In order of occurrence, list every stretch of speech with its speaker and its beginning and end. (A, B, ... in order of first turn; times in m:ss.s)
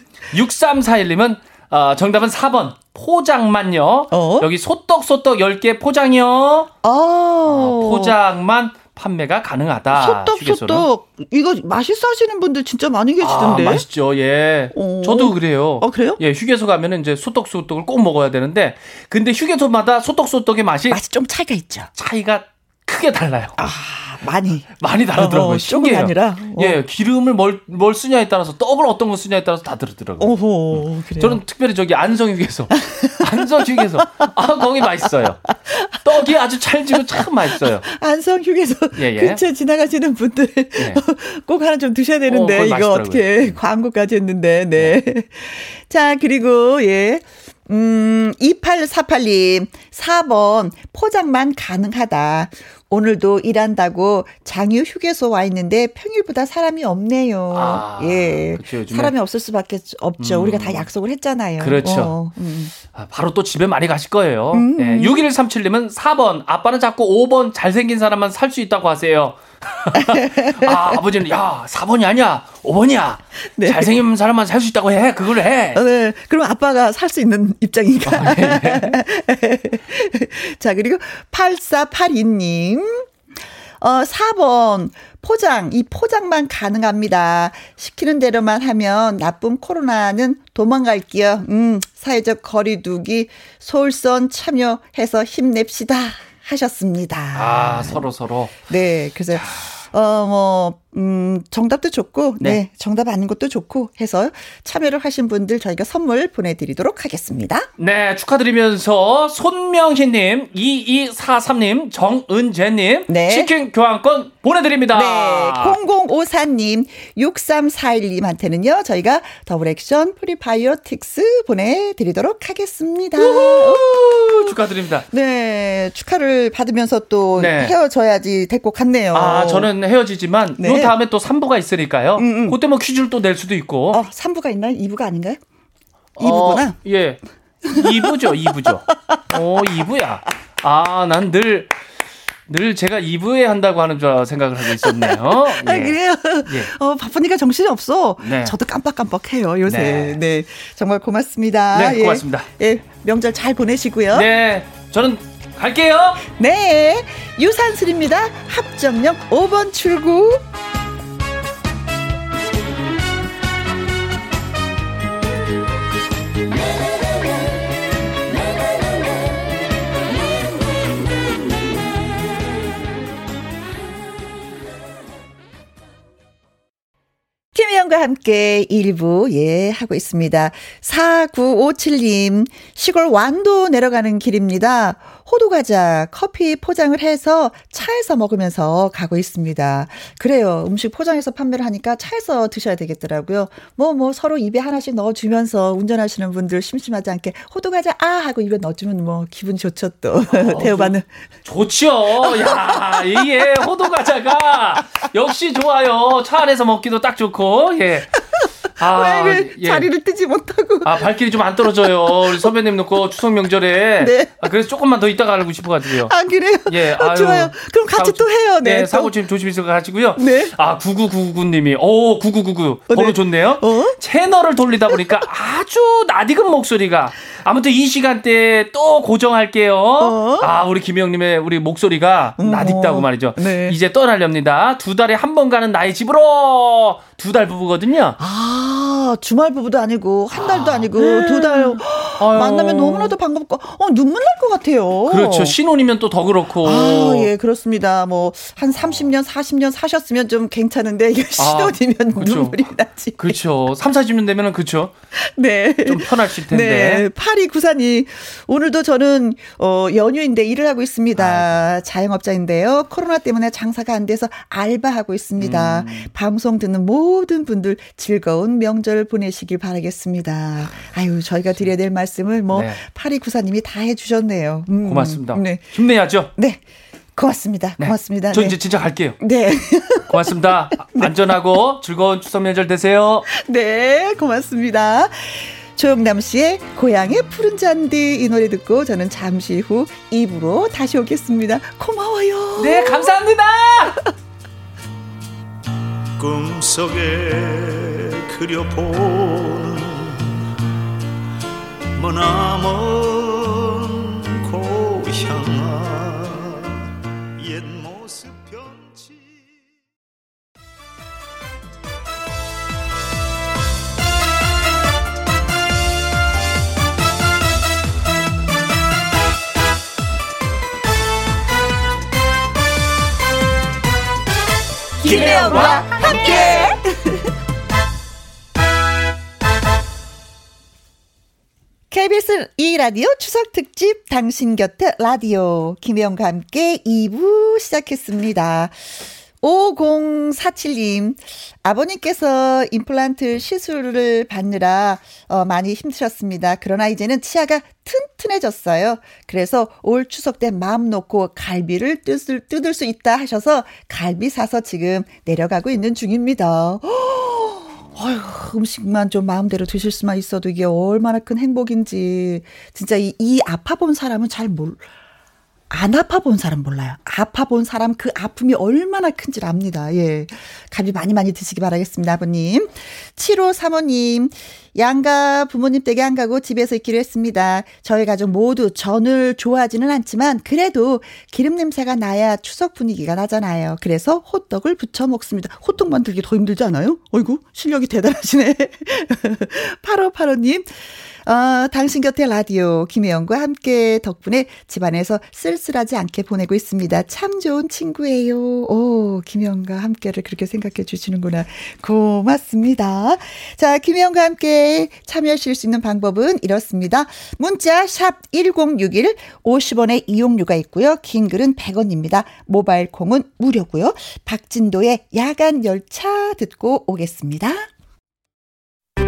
0:00.3-0:06.7 A
0:04.1-0:04.5 B
0:06.8-0:08.2 B
0:07.4-0:10.9 A
0:09.9-0:13.8 B
0:13.2-0:21.0 A
0:14.7-0:16.2 B
0:20.9-0:21.9 B
0:21.9-0:23.6 A
0:23.6-0:26.8 B
0:24.8-0:35.4 A
0:30.2-0:31.4 B
0:32.9-0:33.4 B
0:35.6-0:36.1 B
0:36.0-0:37.8 A
0:37.6-1:02.7 B
0:39.0-0:39.4 A
0:40.8-0:41.0 A
0:42.3-0:43.6 A
0:57.5-0:59.1 A
1:00.2-1:00.8 A
1:01.6-1:02.2 A
1:02.8-1:15.8 A
1:04.5-1:05.2 B
1:09.9-1:11.0 B
1:13.5-1:13.9 B
1:15.7-1:23.1 B
1:18.0-1:19.0 A
1:23.8-1:38.0 B
1:37.3-1:38.5 A
1:38.7-1:47.7 B
1:47.8-1:55.8 A
1:53.1-1:53.5 B
1:54.9-2:04.6 B
2:03.2-2:05.0 A
2:05.1-2:09.7 B
2:07.4-2:07.8 A
2:09.1-2:14.0 A
2:10.6-2:11.0 B
2:12.2-2:12.6 B
2:13.9-2:15.4 B
2:16.2-2:21.7 A
2:16.2-2:16.8 B
2:17.6-2:18.1 B
2:18.9-2:19.2 B
2:22.5-2:26.7 A
2:24.7-2:34.3 B
2:28.2-2:28.5 A
2:29.6-2:30.2 A
2:31.7-2:32.5 A
2:34.1-2:36.2 A
2:36.2-2:40.4 B
2:57.5-3:21.1 B
3:20.3-3:28.2 A
3:22.2-3:23.3 B
3:28.8-3:29.9 A
3:28.8-3:31.0 B
3:30.8-3:36.1 A
3:34.0-3:34.5 B
3:36.0-3:39.1 B
3:36.6-3:58.2 A
3:40.2-3:40.5 B
3:42.9-3:44.0 B
3:50.0-3:50.5 B
3:52.4-3:53.8 B
3:58.2-4:05.6 B
4:00.3-4:03.2 A
4:05.1-4:07.3 A
4:06.6-4:13.4 B
4:11.4-4:12.7 A
4:13.2-4:14.9 A
4:15.1-4:35.6 B
4:15.8-4:17.0 A
4:21.2-4:21.6 A
4:25.4-4:26.1 A
4:32.5-4:32.8 A
4:34.8-4:36.3 A
4:36.3-4:36.6 B
4:37.2-4:38.6 B
4:37.8-4:39.2 A
4:39.2-4:40.3 B
4:40.1-4:43.3 A
4:43.3-4:53.2 B
4:52.6-4:54.0 A
4:56.2-5:00.3 C
5:02.0-5:06.7 C
5:07.4-5:09.6 C
5:25.0-5:27.3 B
5:25.0-5:26.6 A
5:31.9-5:38.8 B
5:39.4-6:04.8 B
6:05.7-6:57.7 B